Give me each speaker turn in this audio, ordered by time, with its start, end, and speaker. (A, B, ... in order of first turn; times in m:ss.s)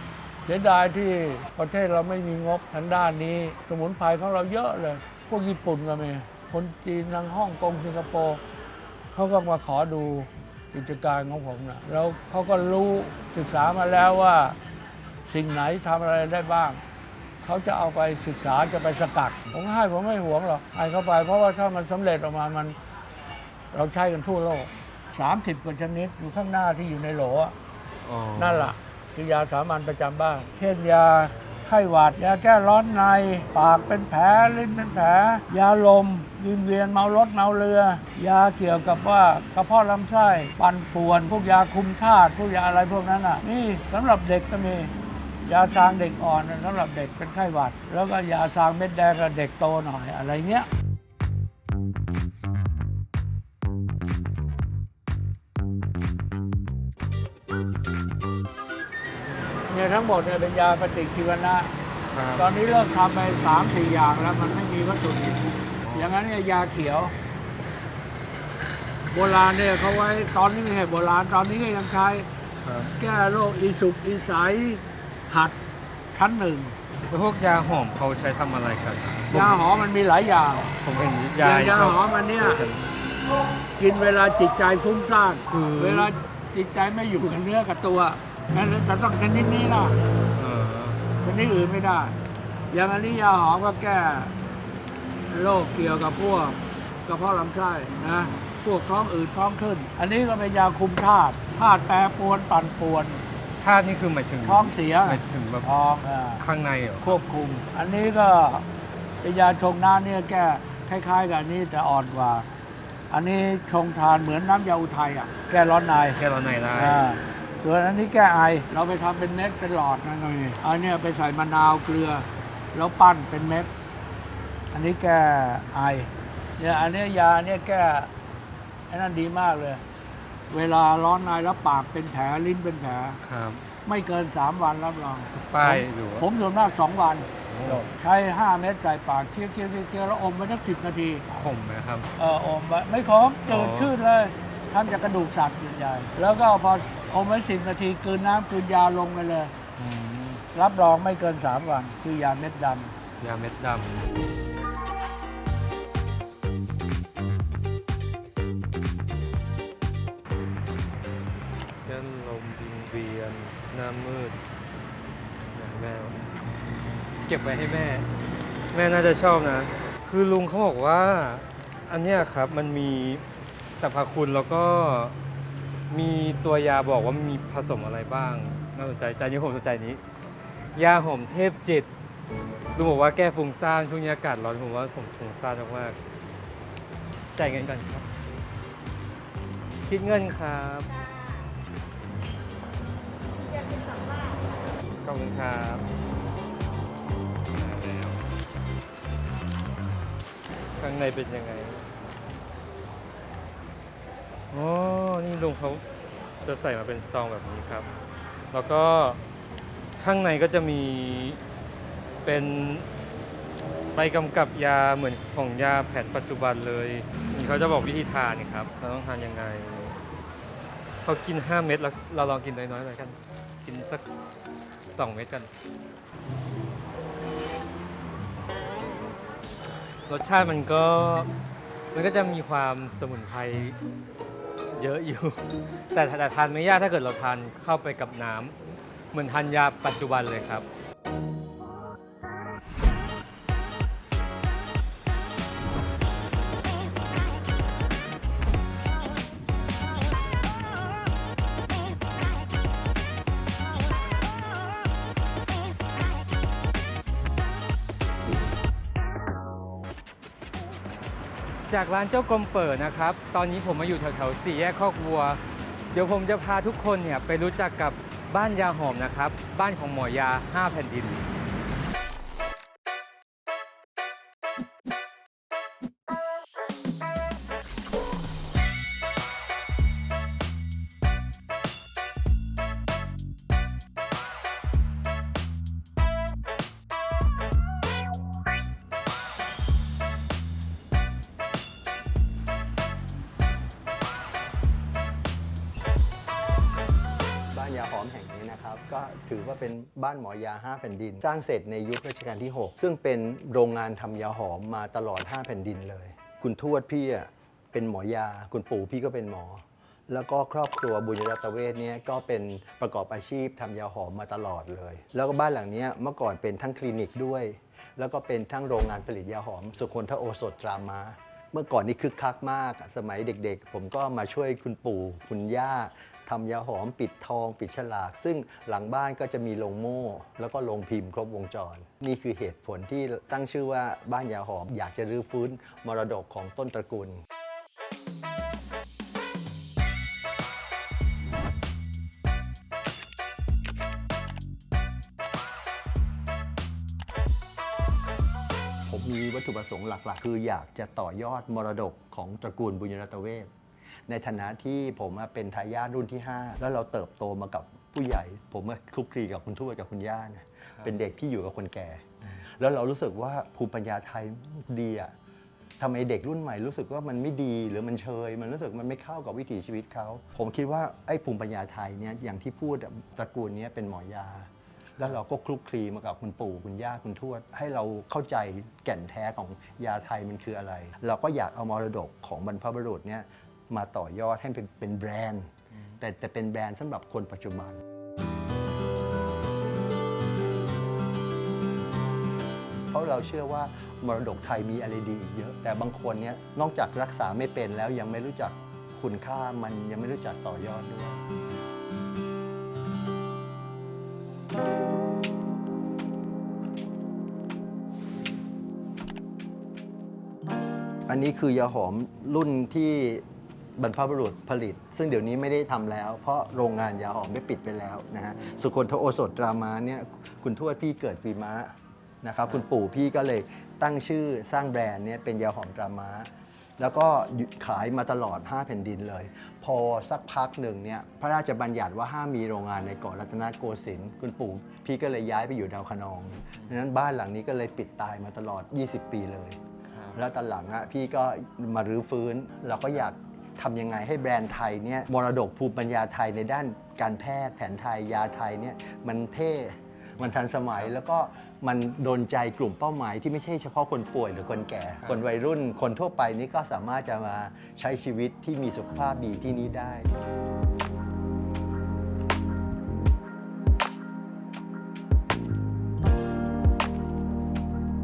0:00.4-0:08.4 A
0:09.1-0:14.6 A
0:15.3-0:16.8 A
0:17.4-0:22.8 A
0:23.7-0:27.5 A
0:28.0-0:28.7 B
0:28.4-0:44.9 A
0:45.5-0:50.7 A
0:59.7-1:01.8 A
1:02.1-1:02.5 B
1:02.4-1:07.1 A
1:05.8-1:06.1 B
1:09.1-1:12.3 A
1:12.6-1:13.0 B
1:13.0-1:15.6 A
1:16.1-1:16.8 A
1:17.1-1:19.6 B
1:19.3-1:20.8 A
1:20.8-1:22.9 B
1:21.4-1:22.6 A
1:23.8-1:30.0 A
1:25.5-1:26.1 B
1:30.4-1:31.0 B
1:31.2-1:32.2 A
1:32.7-1:34.3 A
1:35.3-1:43.2 A
1:43.6-1:45.7 B
1:44.4-1:46.4 A
1:46.4-1:47.2 B
1:47.0-1:48.6 A
1:49.2-1:52.5 A
1:53.1-1:56.2 A
1:56.1-1:57.0 B
1:56.7-2:03.7 A
2:04.7-2:08.1 A
2:08.9-2:09.8 A
2:10.5-2:13.2 A
2:13.2-2:13.6 B
2:13.8-2:21.2 A
2:15.3-2:16.3 B
2:17.5-2:17.9 B
2:21.3-2:22.1 B
2:22.2-2:29.5 A
2:23.5-2:23.9 B
2:29.8-2:30.4 B
2:30.5-2:33.0 A
2:33.2-2:34.1 B
2:41.8-2:44.4 B
2:45.5-2:46.3 B
2:47.2-2:48.1 B
2:48.7-2:53.2 B
2:53.8-2:55.1 B
2:55.9-3:00.0 B
3:00.7-3:01.9 B
3:02.7-3:06.0 B
3:07.3-3:08.0 B
3:09.8-3:10.9 B
3:15.0-3:15.8 B
3:17.5-3:18.2 B
3:20.8-3:21.9 B
3:24.5-3:25.8 B
3:26.4-3:27.9 B
3:28.5-3:29.2 B
3:30.0-3:31.4 B
3:32.2-3:32.9 B
3:33.9-3:40.0 B
3:41.0-3:44.0 B
3:44.9-3:45.5 B
3:50.1-3:51.3 B
3:51.9-3:53.8 B
3:54.7-3:58.6 B
3:59.1-4:00.6 B
4:21.7-4:25.4 B
4:25.9-4:31.2 B
4:57.5-5:37.2 C
5:48.8-5:53.5 C
5:54.1-6:02.0 C
6:02.6-6:05.1 C
6:05.8-6:27.8 C
6:32.9-6:41.2 C
6:51.1-6:53.2 C
6:53.8-7:19.6 C
7:19.9-7:20.2 B
7:20.1-7:40.1 C